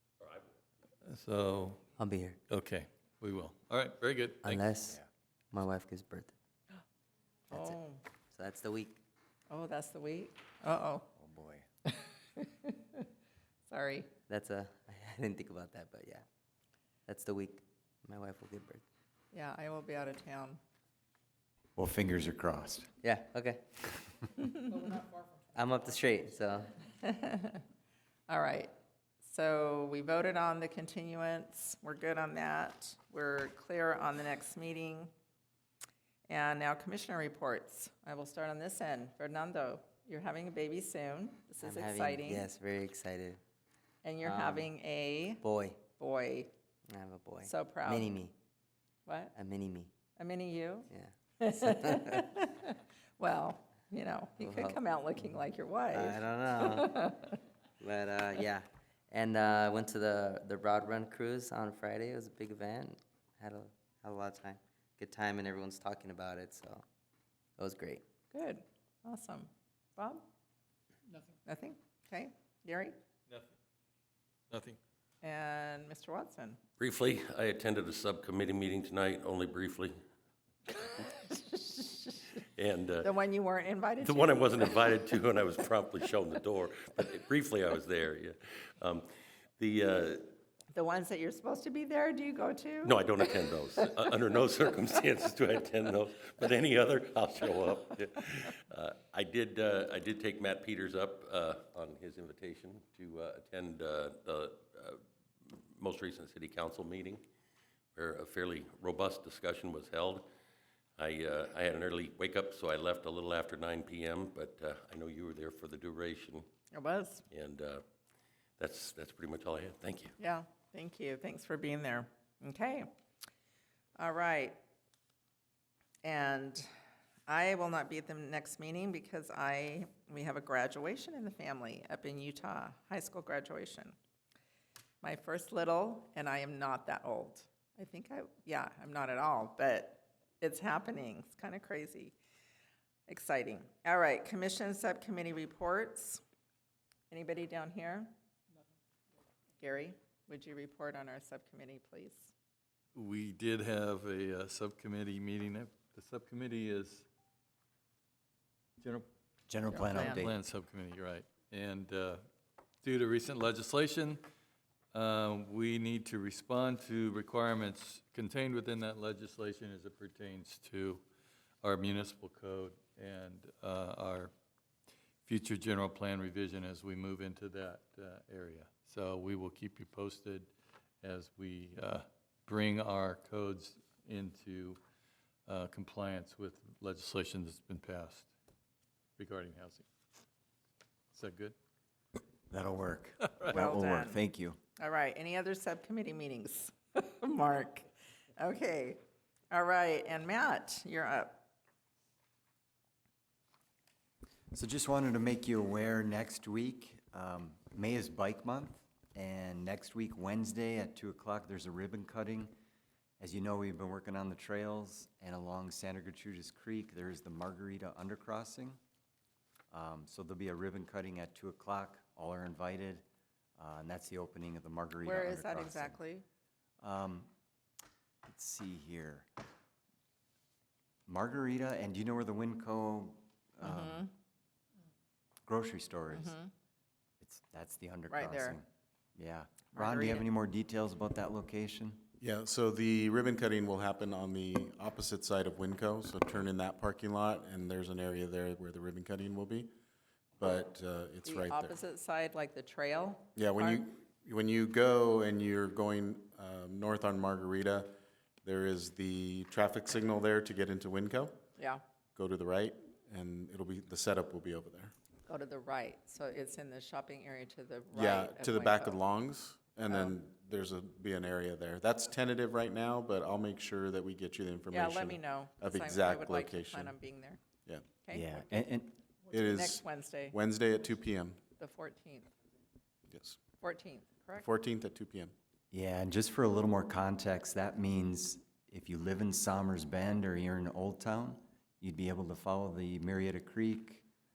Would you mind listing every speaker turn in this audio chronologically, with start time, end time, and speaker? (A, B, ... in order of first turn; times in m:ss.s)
0:00.2-0:00.5 A
0:01.0-0:01.8 B
0:02.0-0:02.4 C
0:02.5-0:04.6 B
0:04.4-0:05.0 C
0:05.5-0:06.3 C
0:07.5-0:08.0 D
0:07.5-0:07.8 C
0:08.3-0:09.0 C
0:09.5-0:11.1 D
0:11.2-0:11.6 E
0:11.9-0:13.1 D
0:13.7-0:14.2 D
0:14.3-0:16.2 C
0:17.1-0:18.8 C
0:19.3-0:20.6 D
0:21.8-0:22.9 E
0:23.0-0:23.6 C
0:24.4-0:25.0 D
0:25.5-0:26.7 C
0:26.9-0:27.6 D
0:28.3-0:28.7 D
0:29.2-0:35.1 D
0:36.3-0:42.5 D
0:41.6-0:43.4 C
0:44.0-0:46.5 D
0:44.2-0:44.7 C
0:45.4-0:45.8 C
0:46.9-0:48.3 C
0:47.4-0:48.2 D
0:49.1-0:49.3 D
0:49.4-0:49.9 C
0:50.2-0:50.9 D
0:50.9-0:51.2 C
0:51.4-0:57.4 D
0:51.7-0:52.2 C
0:54.4-0:54.8 C
0:55.9-0:57.1 C
0:57.8-1:06.8 C
1:07.6-1:08.0 C
1:08.3-1:10.2 D
1:11.5-1:13.0 D
1:14.5-1:14.8 B
1:15.2-1:16.6 D
1:16.8-1:20.0 A
1:20.8-1:22.4 D
1:22.6-1:23.1 A
1:23.0-1:25.0 D
1:24.0-1:29.1 A
1:29.6-1:30.4 A
1:30.7-1:33.1 D
1:32.8-1:47.2 A
1:48.0-1:50.3 A
1:51.0-1:56.4 A
1:56.7-1:57.2 D
1:57.3-1:57.8 A
1:58.6-2:00.2 A
2:00.2-2:02.9 D
2:04.0-2:04.6 D
2:06.0-2:06.7 D
2:07.3-2:14.0 D
2:15.0-2:22.2 D
2:23.1-2:26.2 D
2:27.1-2:28.1 D
2:29.6-2:32.3 D
2:33.0-2:37.1 B
2:38.8-2:39.1 B
2:39.5-2:40.3 E
2:39.7-2:40.2 D
2:39.9-2:42.2 B
2:42.8-2:44.2 B
2:44.9-2:51.0 B
2:51.6-2:54.3 B
2:55.2-3:00.5 B
3:01.0-3:04.8 B
3:05.5-3:08.3 B
3:09.2-3:09.9 B
3:11.1-3:11.6 B
3:12.5-3:14.6 E
3:13.5-3:14.2 D
3:14.8-3:19.0 D
3:19.5-3:21.4 D
3:24.5-3:32.5 E
3:33.2-3:38.8 E
3:39.7-3:43.0 E
3:43.6-3:46.0 E
3:45.0-3:46.2 D
3:46.8-3:47.3 E
3:48.3-3:49.3 E
3:51.1-3:54.1 E
3:53.6-3:54.1 D
3:55.4-3:56.4 E
3:56.1-3:56.5 D
3:57.2-4:02.1 E
3:58.1-3:58.6 D
3:59.7-4:00.2 D
4:02.2-4:09.7 F
4:10.4-4:11.8 F
4:11.2-4:13.9 D
4:13.4-4:21.4 F
4:22.2-4:24.9 F
4:25.3-4:29.0 D
4:27.9-4:37.0 F
4:29.9-4:30.2 D
4:34.7-4:37.4 D
4:37.6-4:38.0 F
4:38.0-4:38.5 D
4:38.1-4:39.0 E
4:39.3-4:41.4 F
4:39.4-4:40.4 D
4:41.6-4:42.3 D
4:43.1-4:43.4 F
4:43.6-4:44.5 D
4:44.4-4:45.3 F
4:45.7-4:54.1 E